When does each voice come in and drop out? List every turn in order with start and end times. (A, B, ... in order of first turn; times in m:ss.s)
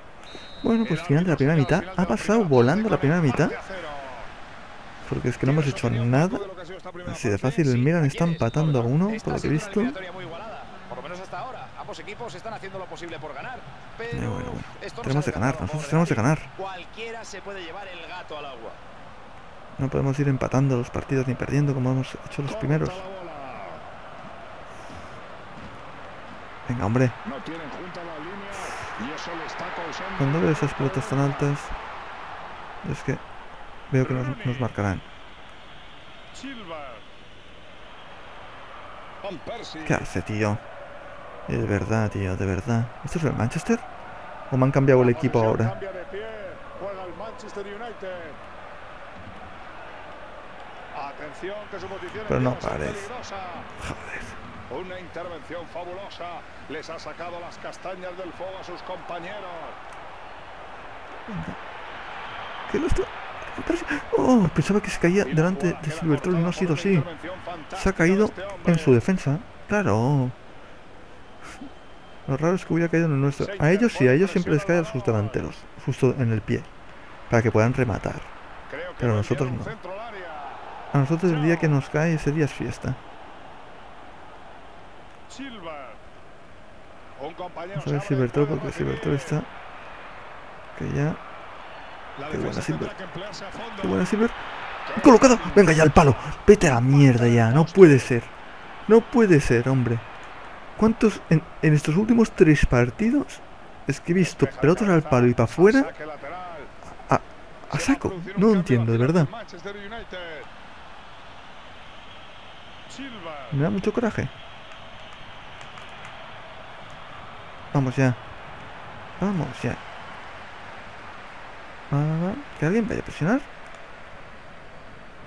0:00.6-0:03.6 A
0:00.8-0:04.3 B
0:05.0-0:06.4 A
0:05.4-0:07.9 B
0:07.0-0:10.0 A
0:07.8-0:18.8 C
0:08.6-0:08.9 B
0:14.1-0:16.5 A
0:19.8-0:23.0 A
0:22.5-0:23.8 B
0:26.7-0:27.2 A
0:27.2-0:31.6 B
0:30.2-0:31.8 A
0:32.8-0:33.2 A
0:33.9-0:35.1 A
0:34.0-0:34.7 B
0:36.3-0:37.1 B
0:39.2-0:40.1 B
0:39.8-0:40.6 A
0:41.5-0:43.9 A
0:44.5-0:45.8 A
0:44.9-0:48.4 B
0:50.9-0:53.7 B
0:52.3-0:53.1 A
0:53.8-0:54.4 A
0:54.7-0:59.8 B
1:01.3-1:01.6 A
1:02.7-1:07.1 A
1:05.2-1:09.0 B
1:07.8-1:10.4 A
1:12.3-1:16.7 A
1:13.2-1:15.5 B
1:17.3-1:18.3 A
1:18.7-1:20.6 B
1:19.0-1:19.8 A
1:20.9-1:23.0 A
1:21.2-1:21.8 B
1:25.3-1:26.0 B
1:27.2-1:29.4 B
1:27.8-1:29.5 A
1:30.7-1:31.2 A
1:32.2-1:34.2 B
1:32.3-1:32.9 A
1:33.8-1:34.4 A
1:34.9-1:38.1 B
1:35.0-1:38.3 A
1:38.9-1:40.0 A
1:40.8-1:45.9 A
1:44.2-1:46.7 B
1:47.0-1:49.3 A
1:47.7-1:50.5 B
1:52.9-1:53.6 B
1:53.5-1:54.3 A
1:57.7-1:58.2 A
1:59.2-1:59.8 A
2:01.9-2:03.5 A